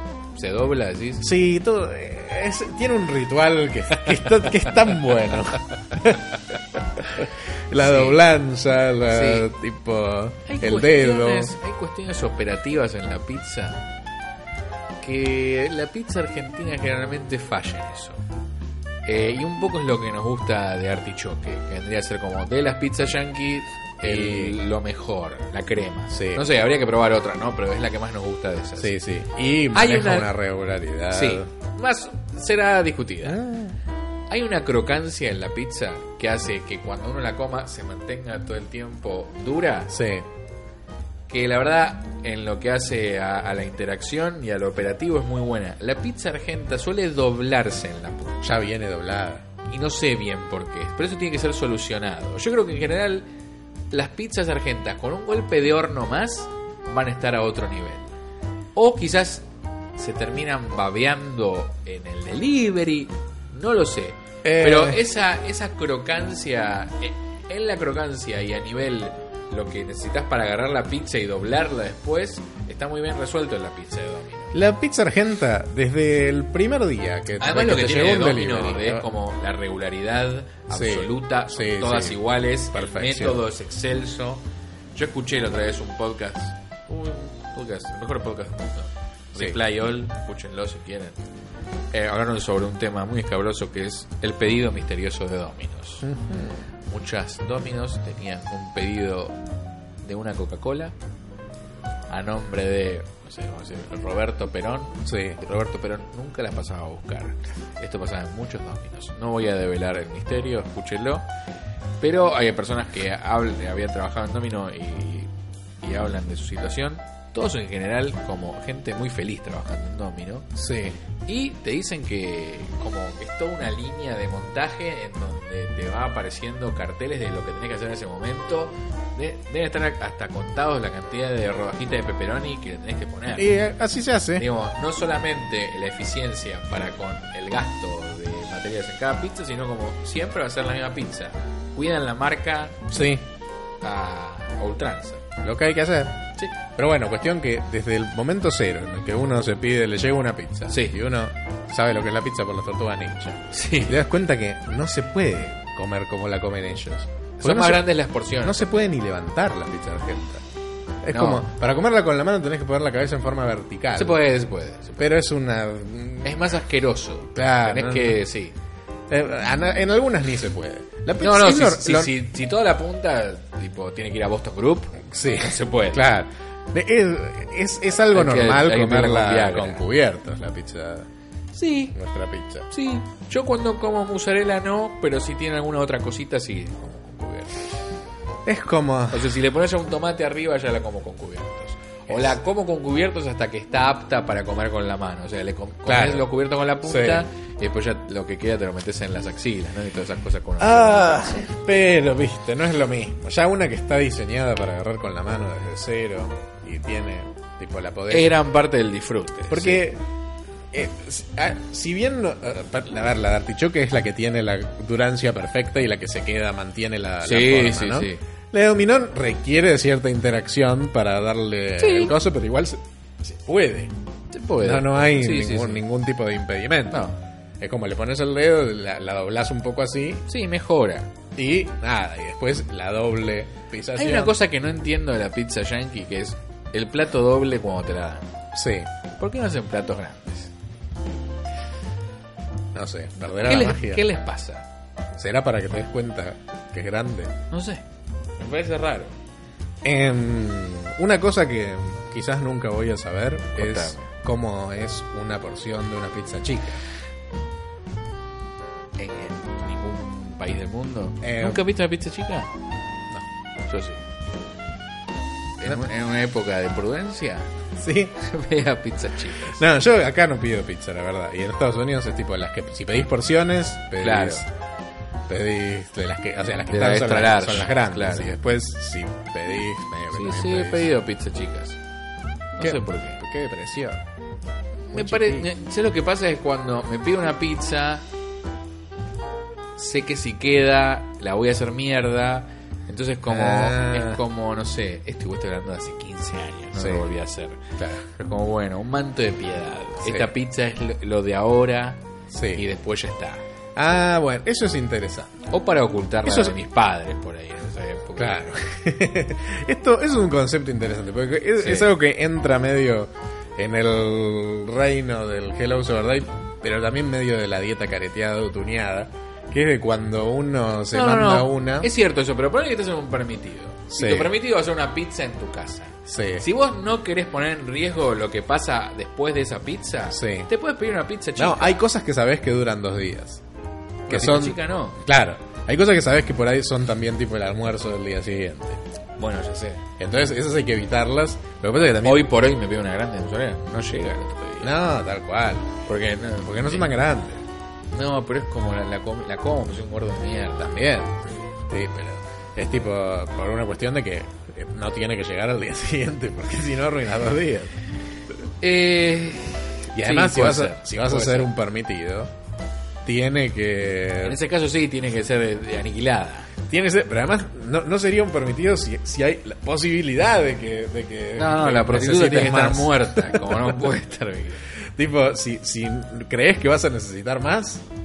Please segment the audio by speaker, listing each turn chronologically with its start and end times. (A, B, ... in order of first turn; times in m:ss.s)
0:00.3-0:01.2 A
0:01.2-0:11.5 B
0:07.8-0:08.2 A
0:09.1-0:09.5 A
0:10.4-0:13.8 A
0:15.0-0:18.2 A
0:19.0-0:28.9 A
0:24.0-0:24.6 B
0:26.1-0:26.4 B
0:28.8-0:31.5 B
0:29.7-0:30.3 A
0:31.1-0:33.4 A
0:33.2-0:33.8 B
0:34.3-0:39.9 A
0:39.9-0:40.3 B
0:41.3-0:48.4 A
0:48.4-0:49.4 B
0:49.7-0:53.3 A
0:53.9-0:58.1 A
0:58.7-0:59.4 A
1:00.0-1:14.5 A
1:04.4-1:05.0 B
1:14.5-1:19.1 B
1:17.4-1:24.4 A
1:20.7-1:23.4 B
1:24.9-1:31.2 A
1:31.9-1:36.1 A
1:36.0-1:36.6 B
1:36.9-1:39.4 A
1:40.0-1:40.9 A
1:42.1-1:51.2 A
1:45.0-1:45.4 B
1:52.0-1:55.3 A
1:55.8-2:00.5 A
2:00.5-2:01.0 B
2:01.3-2:13.5 A
2:13.3-2:14.4 B
2:14.4-2:22.8 A
2:22.9-2:23.2 B
2:23.8-2:25.2 A
2:25.4-2:37.8 B
2:30.7-2:31.0 A
2:33.5-2:34.0 A
2:37.4-2:38.7 A
2:38.4-2:40.4 B
2:41.0-2:44.2 B
2:41.1-2:41.4 A
2:44.0-2:45.1 A
2:45.0-2:46.5 B
2:46.2-2:48.5 A
2:47.3-2:48.2 B
2:49.1-2:52.1 B
2:51.2-2:56.0 A
2:55.0-3:01.1 B
2:58.1-2:59.8 A
3:01.5-3:01.9 A
3:01.9-3:02.7 B
3:02.7-3:07.6 A
3:08.4-3:09.3 B
3:09.1-3:21.4 A
3:12.1-3:12.4 B
3:15.8-3:16.3 B
3:16.8-3:17.2 B
3:20.6-3:28.3 B
3:28.1-3:29.8 A
3:29.5-3:30.0 B
3:30.7-3:43.9 B
3:37.2-3:38.2 A
3:41.8-3:42.1 A
3:44.3-3:45.8 A
3:44.6-3:47.0 B
3:46.9-3:47.2 A
3:47.6-3:50.2 B
3:50.3-3:51.1 A
3:51.3-3:54.3 B
3:54.0-3:58.3 A
3:58.5-3:58.9 B
3:59.2-4:00.5 A
4:02.7-4:04.0 B
4:03.4-4:04.7 A
4:05.2-4:07.3 B
4:07.5-4:07.8 A
4:08.4-4:09.1 A
4:09.8-4:16.8 B
4:13.6-4:14.1 A
4:19.0-4:22.5 A
4:21.2-4:21.6 B
4:23.7-4:24.0 A
4:25.6-4:27.5 A
4:27.8-4:28.2 B
4:28.2-4:29.6 A
4:29.5-4:34.5 B
4:34.0-4:34.4 A
4:35.3-4:40.9 B
4:36.7-4:38.3 A
4:40.1-4:41.8 A
4:42.6-4:43.2 A
4:42.6-4:44.0 B
4:44.9-4:45.5 B
4:44.9-4:48.0 A
4:49.8-5:02.0 A
4:53.3-4:54.2 B
4:56.7-4:57.0 B
5:00.0-5:00.3 B
5:02.3-5:02.6 B
5:02.5-5:03.4 A
5:03.8-5:05.3 B
5:05.5-5:08.6 A
5:06.2-5:06.6 B
5:08.2-5:21.9 B
5:11.6-5:11.9 A
5:20.9-5:31.8 A
5:23.9-5:24.3 B
5:26.1-5:26.4 B
5:30.1-5:30.5 B
5:31.4-5:33.4 B
5:34.1-5:38.8 B
5:34.1-5:35.0 A
5:39.2-5:39.8 A
5:40.0-5:42.3 B
5:42.0-5:44.7 A
5:44.6-5:45.7 B
5:45.9-5:46.9 A
5:46.4-5:47.4 B
5:47.9-5:50.8 A
5:50.6-5:57.7 B
5:58.6-6:01.5 A
5:59.9-6:02.3 B
6:03.0-6:04.4 B
6:04.2-6:06.5 A
6:06.7-6:13.9 B
6:11.4-6:14.6 A
6:14.9-6:17.8 B